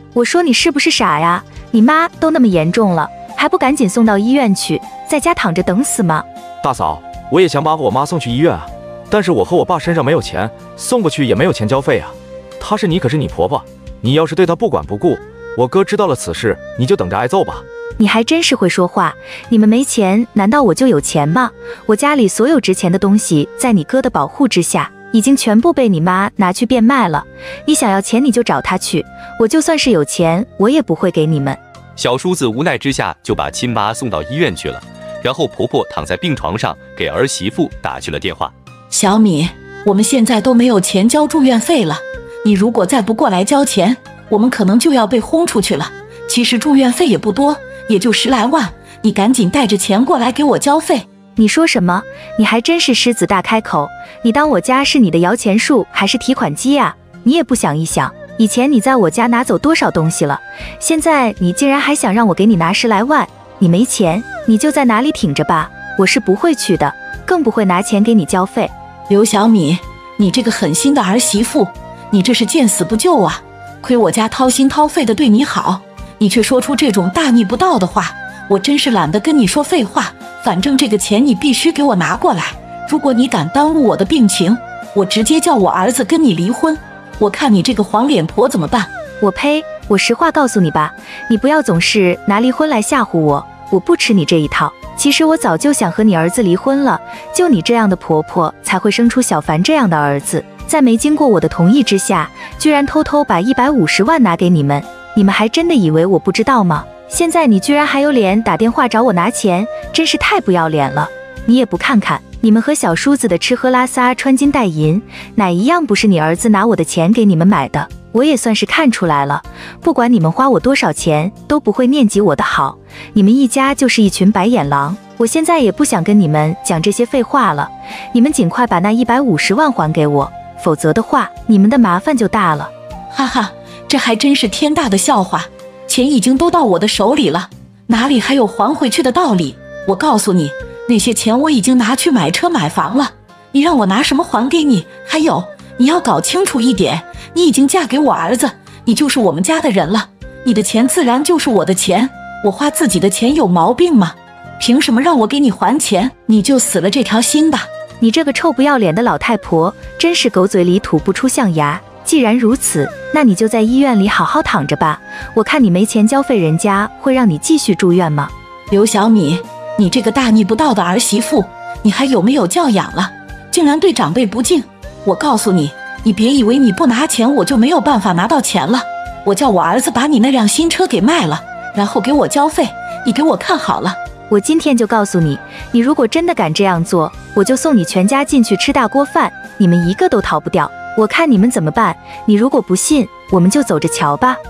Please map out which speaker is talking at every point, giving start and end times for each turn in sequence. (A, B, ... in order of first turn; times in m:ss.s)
0:00.1-0:06.2 A
0:06.6-0:17.6 B
0:18.0-0:31.6 A
0:32.0-0:38.5 C
0:38.9-0:51.0 D
0:51.4-1:08.7 A
1:09.1-1:28.9 D
1:29.2-2:12.7 A
2:13.1-2:37.7 D
2:38.0-2:48.3 A
2:48.7-3:04.0 D
3:04.3-3:14.4 A